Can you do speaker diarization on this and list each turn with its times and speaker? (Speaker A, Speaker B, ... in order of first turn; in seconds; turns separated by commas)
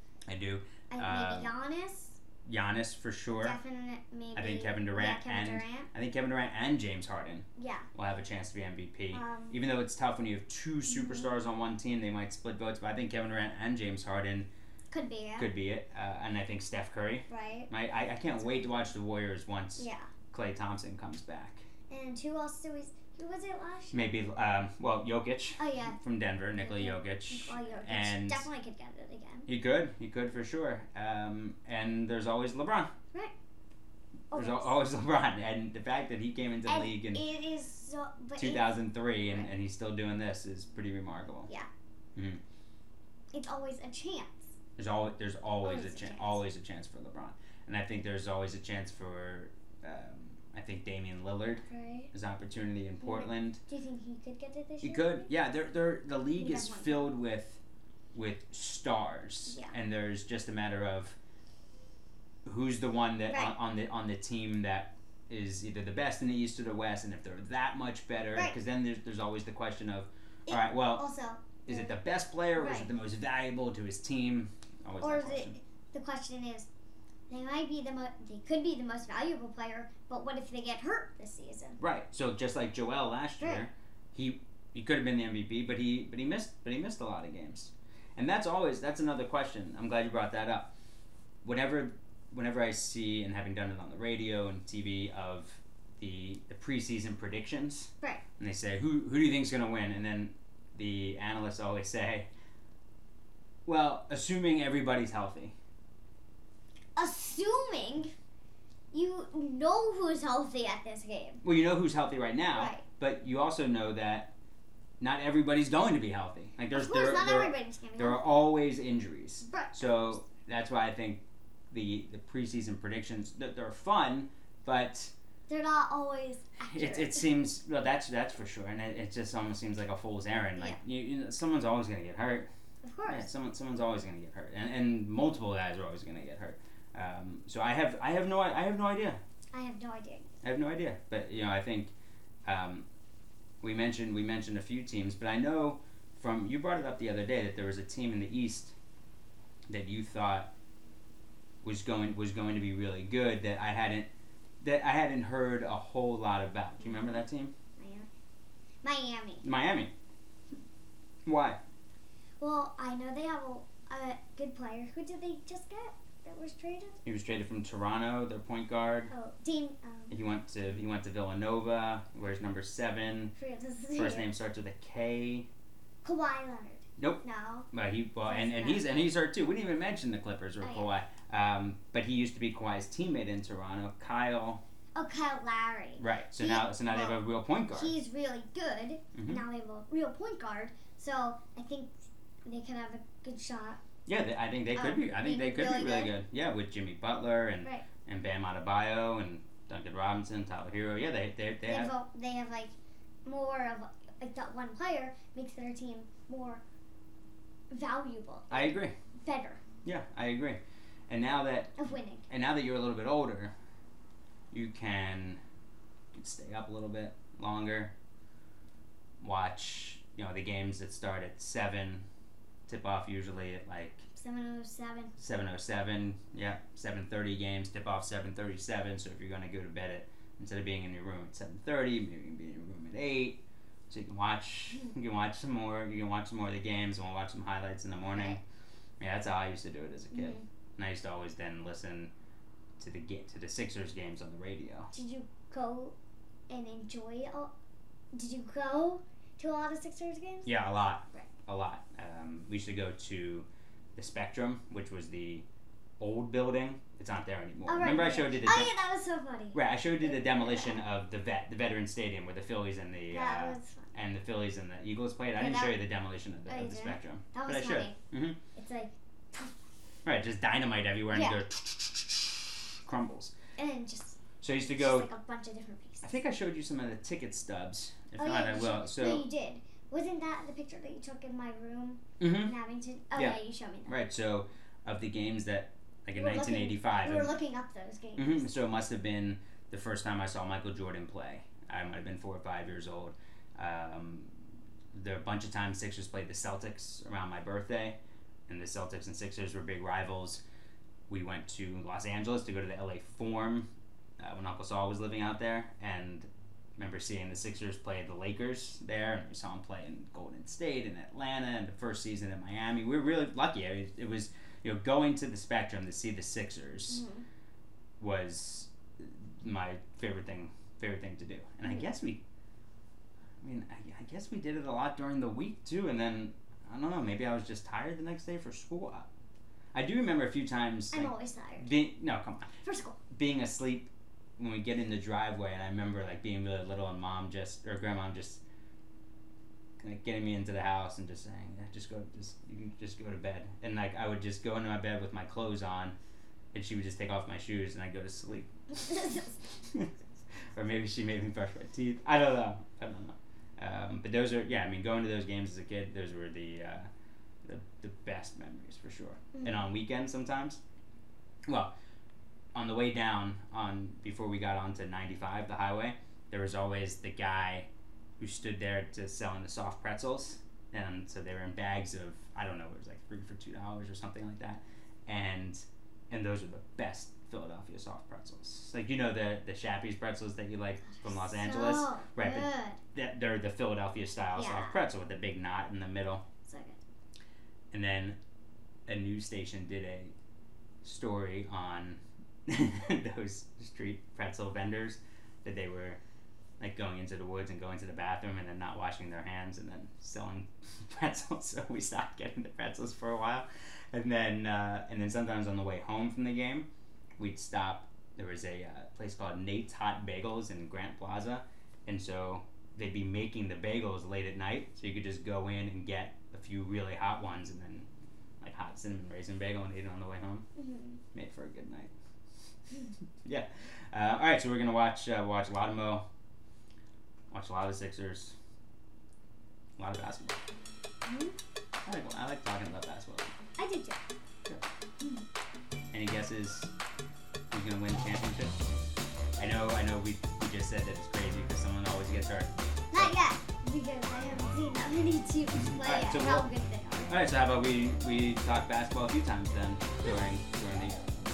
Speaker A: 0.3-1.5, Speaker B: 0.9-2.2, Speaker A: 2.4-3.6, Speaker B: 3.3-5.9, Speaker A: 4.3-14.5, Speaker B: 7.6-7.9, Speaker B: 9.1-9.6, Speaker B: 10.9-11.3, Speaker B: 14.9-15.5, Speaker A: 15.4-21.6, Speaker B: 17.3-17.7, Speaker B: 18.4-18.9, Speaker B: 19.8-20.1, Speaker B: 21.9-24.0, Speaker A: 23.9-28.4, Speaker B: 25.6-26.0, Speaker B: 26.6-29.5, Speaker A: 29.5-32.9, Speaker B: 34.3-34.8, Speaker A: 34.3-37.2, Speaker B: 36.7-39.5, Speaker A: 38.4-41.5, Speaker A: 42.1-42.4, Speaker B: 43.3-44.5, Speaker A: 44.8-53.6, Speaker B: 45.6-46.4, Speaker B: 51.6-52.1, Speaker B: 53.0-55.3, Speaker A: 54.8-57.6, Speaker B: 56.4-57.1, Speaker A: 58.1-61.1, Speaker B: 59.5-59.7, Speaker A: 62.4-71.1, Speaker B: 63.3-63.6, Speaker B: 70.5-72.0, Speaker A: 71.7-75.6, Speaker B: 72.5-72.9, Speaker B: 75.0-76.7, Speaker B: 77.3-81.8, Speaker A: 81.8-90.7, Speaker B: 83.4-83.6, Speaker A: 91.4-102.3, Speaker A: 103.7-105.5, Speaker B: 107.0-108.1, Speaker B: 108.9-111.4, Speaker A: 111.4-114.3, Speaker B: 112.5-112.8, Speaker A: 115.0-125.1, Speaker B: 116.7-118.4, Speaker B: 119.4-120.2, Speaker B: 125.5-127.3, Speaker A: 126.7-132.5, Speaker B: 132.8-133.3, Speaker A: 133.1-139.2, Speaker B: 139.5-140.3, Speaker A: 140.4-141.9, Speaker A: 142.4-142.8, Speaker A: 143.6-148.7, Speaker A: 149.7-150.5, Speaker A: 151.6-154.1, Speaker A: 154.6-157.5, Speaker B: 156.9-157.2, Speaker B: 157.8-158.1, Speaker B: 158.8-159.5, Speaker A: 159.4-159.9, Speaker A: 161.2-161.6, Speaker B: 162.4-167.0, Speaker A: 167.0-169.1, Speaker B: 169.1-170.1, Speaker A: 170.1-173.3, Speaker B: 173.4-174.3, Speaker A: 173.9-175.5, Speaker B: 176.0-177.7, Speaker A: 177.0-184.6, Speaker B: 178.2-179.1, Speaker B: 180.6-180.9, Speaker B: 184.9-193.8, Speaker A: 186.0-188.0, Speaker A: 189.1-189.4, Speaker A: 194.1-201.9, Speaker B: 194.7-196.2, Speaker B: 201.6-202.7, Speaker B: 203.2-206.6, Speaker B: 207.7-209.6, Speaker A: 208.5-208.9, Speaker A: 209.8-211.8, Speaker B: 211.8-212.2, Speaker A: 212.3-213.5, Speaker A: 214.5-215.4, Speaker A: 216.1-217.9, Speaker A: 219.2-222.1, Speaker A: 222.7-224.0, Speaker B: 224.1-225.1, Speaker A: 225.2-238.4, Speaker B: 238.1-238.4, Speaker A: 239.0-242.1, Speaker B: 240.1-240.4, Speaker A: 242.8-244.9, Speaker B: 244.9-245.9, Speaker B: 246.5-247.5, Speaker B: 248.1-250.5, Speaker A: 250.4-255.4, Speaker A: 256.0-258.7, Speaker B: 257.7-260.8, Speaker A: 259.5-268.4, Speaker B: 263.1-263.9, Speaker B: 265.3-265.9, Speaker B: 266.4-268.0, Speaker B: 268.5-269.6, Speaker A: 270.0-273.3, Speaker B: 271.1-271.4, Speaker B: 273.6-274.2, Speaker A: 274.4-275.1, Speaker B: 274.7-276.1, Speaker A: 276.0-279.3, Speaker B: 278.2-283.9, Speaker A: 282.2-282.5, Speaker A: 283.1-287.4, Speaker B: 286.1-288.5, Speaker A: 288.1-294.3, Speaker A: 294.9-300.4, Speaker A: 301.1-303.7, Speaker A: 304.2-317.1, Speaker B: 316.9-317.2, Speaker A: 318.0-322.2, Speaker A: 323.4-329.1, Speaker A: 329.7-332.5, Speaker B: 330.9-331.7, Speaker B: 332.6-333.0, Speaker A: 333.1-338.4, Speaker A: 339.8-345.9, Speaker A: 346.5-349.9, Speaker B: 348.9-349.2, Speaker A: 350.5-356.9, Speaker A: 357.4-360.6, Speaker A: 361.5-361.7, Speaker A: 362.5-367.7, Speaker A: 368.2-386.2, Speaker B: 381.0-382.8, Speaker B: 384.3-384.8, Speaker B: 386.4-386.8, Speaker A: 387.7-388.2, Speaker A: 388.9-390.1, Speaker A: 390.8-396.0, Speaker A: 396.6-406.7, Speaker A: 407.2-417.9, Speaker A: 418.4-420.4, Speaker B: 420.6-421.0, Speaker A: 421.1-421.9, Speaker A: 423.2-426.1, Speaker A: 427.3-428.4, Speaker A: 429.8-430.4, Speaker B: 431.1-431.4, Speaker A: 431.8-433.3, Speaker B: 433.6-434.0, Speaker A: 435.9-436.7, Speaker A: 437.5-438.5, Speaker A: 439.4-443.1, Speaker B: 442.9-447.1, Speaker A: 445.6-446.5, Speaker A: 447.1-451.0